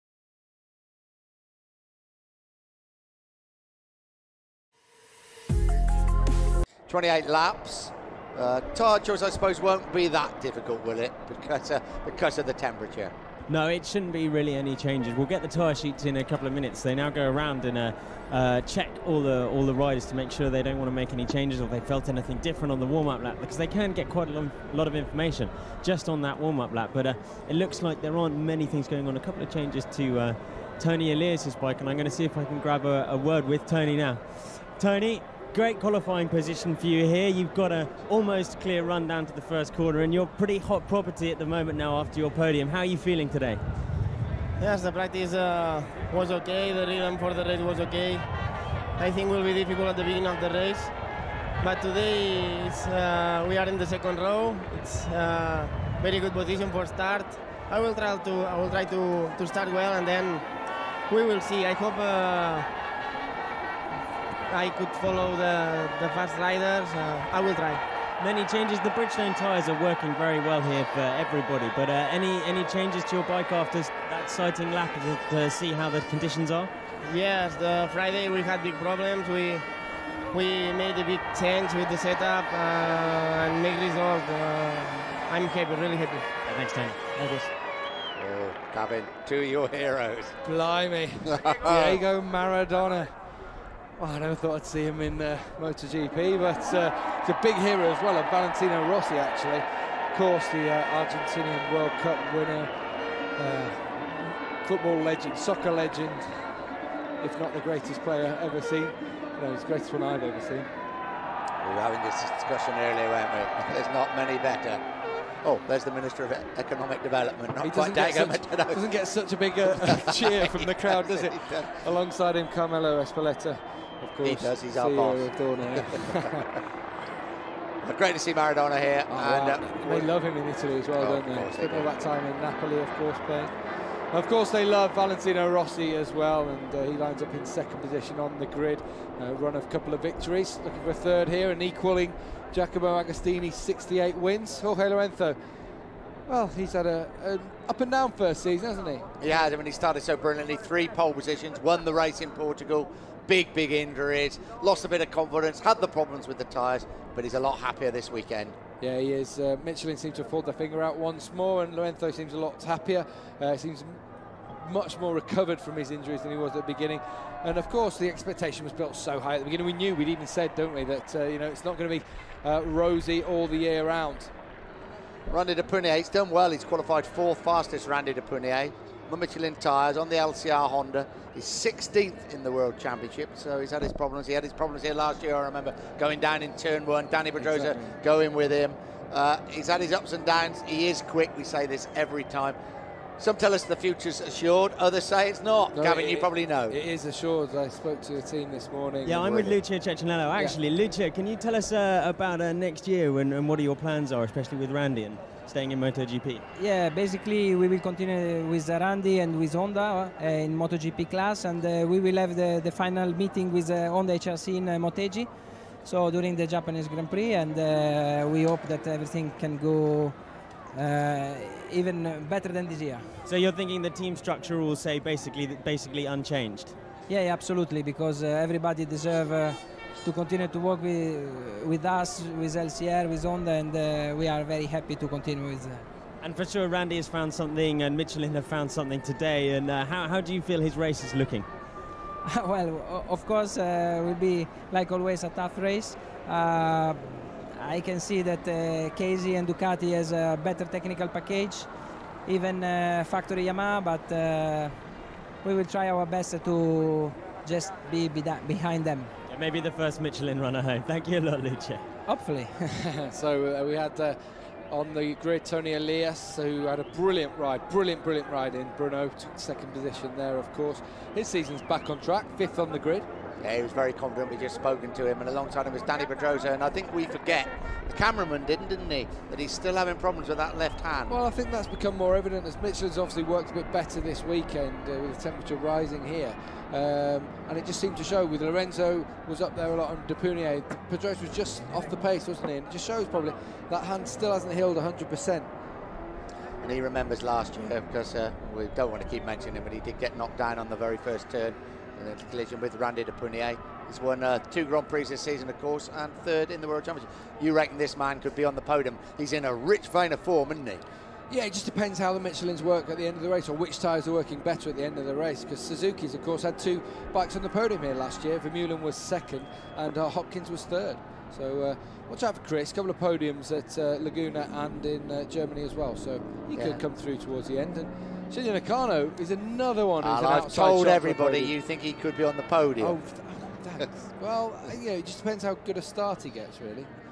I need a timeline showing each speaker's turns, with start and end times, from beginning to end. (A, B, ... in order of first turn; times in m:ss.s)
0:06.9-0:13.1 A
0:13.5-0:43.6 B
0:44.6-0:48.3 C
0:49.0-0:51.0 C
0:51.6-1:00.5 C
1:01.1-1:02.7 C
1:04.5-1:07.8 C
1:08.2-1:16.7 B
1:17.0-1:19.7 C
1:20.3-1:26.3 C
1:26.4-1:27.0 B
1:27.2-1:27.5 C
1:28.2-1:30.4 A
1:30.4-1:33.1 D
1:31.4-1:32.0 A
1:34.0-1:42.7 D
1:43.4-1:46.4 D
1:47.2-1:50.7 D
1:51.6-1:54.8 A
1:55.4-1:58.8 A
1:57.6-2:06.4 D
1:59.7-2:01.7 A
2:04.2-2:06.0 A
2:07.8-2:10.1 A
2:09.1-2:13.5 D
2:11.0-2:11.9 A
2:14.1-2:25.4 D
2:26.3-2:29.5 D
2:29.2-2:38.6 A
2:38.8-2:54.3 D
2:55.3-3:12.6 A
3:07.4-3:08.0 D
3:13.2-3:16.8 A
3:15.7-3:19.6 D
3:19.0-3:26.4 B
3:26.6-3:35.3 E
3:35.8-3:40.2 E
3:40.7-3:43.1 E
3:43.3-3:46.8 B
3:47.1-3:55.9 E
3:56.2-4:01.5 B
4:02.2-4:11.7 E
4:12.3-4:14.8 E
4:15.4-4:19.1 E
4:19.3-4:21.8 B
4:22.1-4:22.6 E
4:22.8-4:24.2 D
4:24.7-4:33.1 D
4:33.4-4:41.2 A
4:41.1-4:55.5 D
4:56.6-5:10.8 A
5:11.3-5:31.5 D
5:26.6-5:26.8 A
5:30.0-5:33.0 A
5:32.8-5:36.9 D